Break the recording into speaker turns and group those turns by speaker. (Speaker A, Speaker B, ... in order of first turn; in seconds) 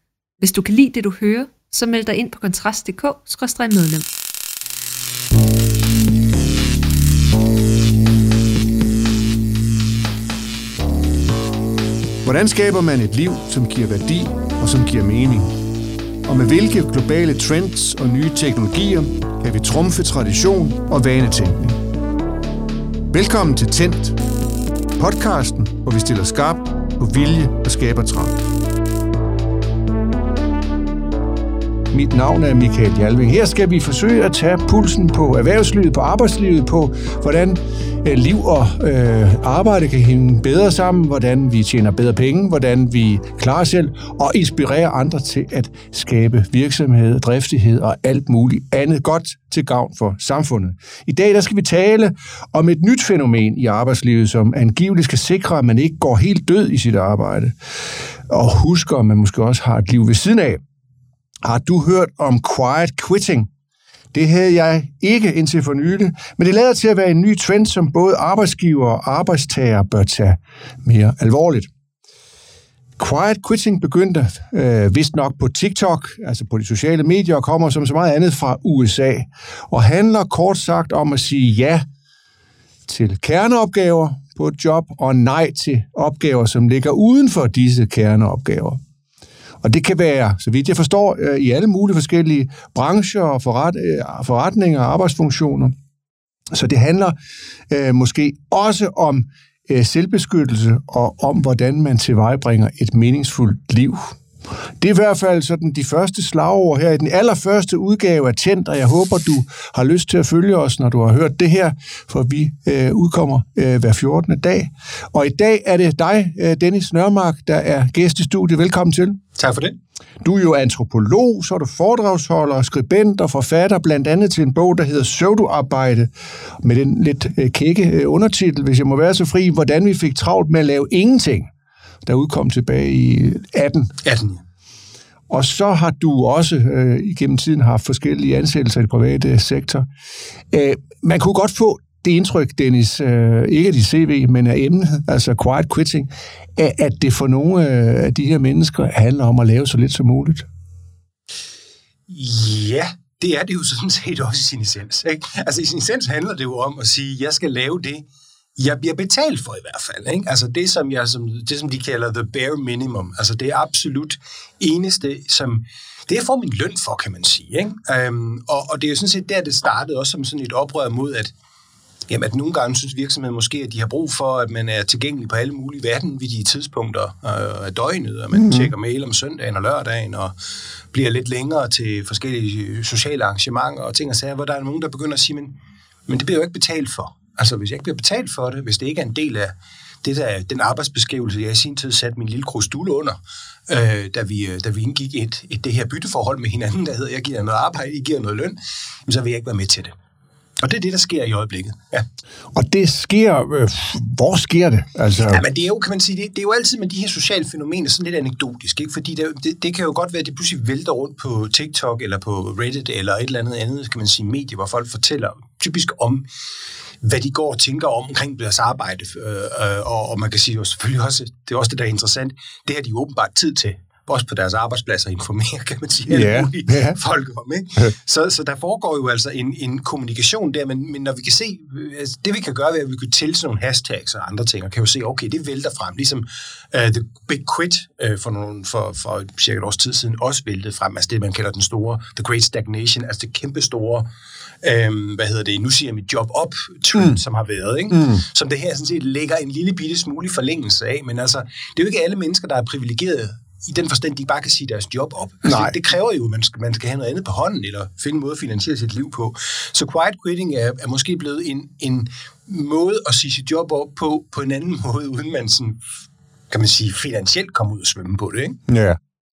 Speaker A: 0.4-4.1
Speaker B: 12.2-15.5, 16.3-21.8, 23.1-24.2, 25.0-28.4, 31.9-57.6, 58.3-60.6, 61.4-63.5, 64.1-71.7, 73.0-81.8, 82.9-88.8, 89.6-95.8, 96.5-97.2, 97.7-104.2, 104.8-119.2, 120.2-126.1, 126.6-131.5, 132.1-133.9, 135.3-139.9, 140.5-150.5, 178.3-178.7, 202.5-205.4, 226.1-227.0, 247.9-248.2, 255.4-255.8, 268.7-269.0
Speaker C: 119.4-119.8, 134.0-134.4, 152.1-158.1, 158.6-171.3, 172.1-180.3, 180.9-185.5, 186.1-199.9, 200.6-202.0, 205.2-216.3, 217.0-244.1, 244.6-265.8, 266.5-268.6